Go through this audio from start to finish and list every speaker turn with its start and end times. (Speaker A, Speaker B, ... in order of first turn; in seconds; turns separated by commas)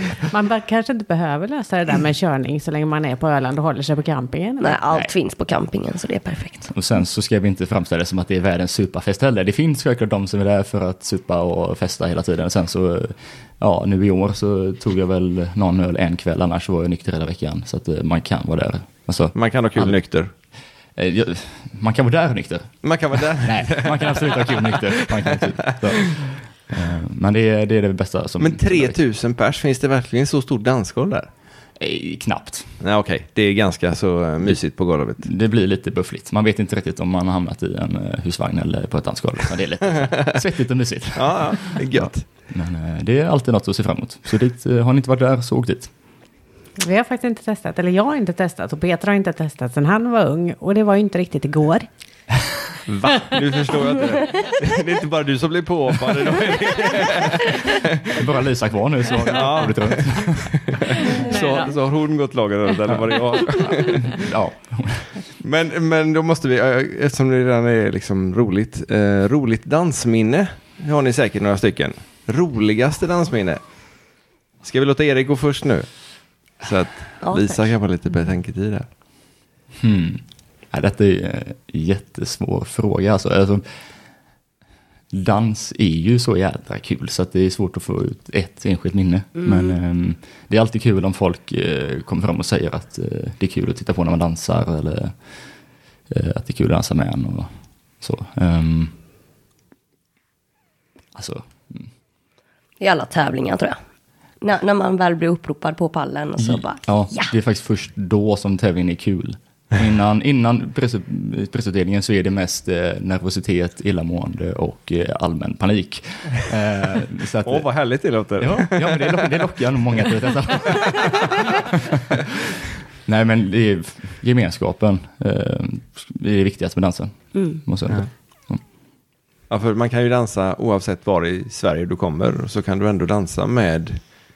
Speaker A: 0.2-4.8, Speaker B: 4.6-6.7, Speaker C: 6.7-20.0, Speaker D: 19.3-20.3, Speaker C: 21.0-22.7, Speaker D: 22.8-26.0, Speaker C: 23.3-29.0, Speaker D: 28.4-31.3, Speaker C: 31.8-32.8, Speaker D: 32.8-35.3, Speaker C: 35.2-45.9, Speaker D: 41.1-42.2, Speaker A: 46.8-51.9, Speaker D: 52.9-58.3, Speaker C: 58.1-61.0, Speaker D: 59.2-64.3, Speaker A: 61.0-61.7, Speaker C: 64.0-65.1, Speaker D: 65.4-73.6, Speaker D: 74.6-75.9, Speaker D: 76.6-78.9, Speaker B: 77.2-77.7, Speaker C: 79.8-83.7, Speaker C: 85.1-95.1, Speaker B: 89.4-89.8, Speaker C: 96.1-97.5, Speaker C: 98.0-98.9, Speaker C: 101.2-101.9, Speaker B: 102.8-103.8, Speaker B: 104.4-107.3, Speaker C: 106.4-117.7, Speaker D: 117.4-119.3, Speaker C: 118.4-128.6, Speaker D: 129.5-134.0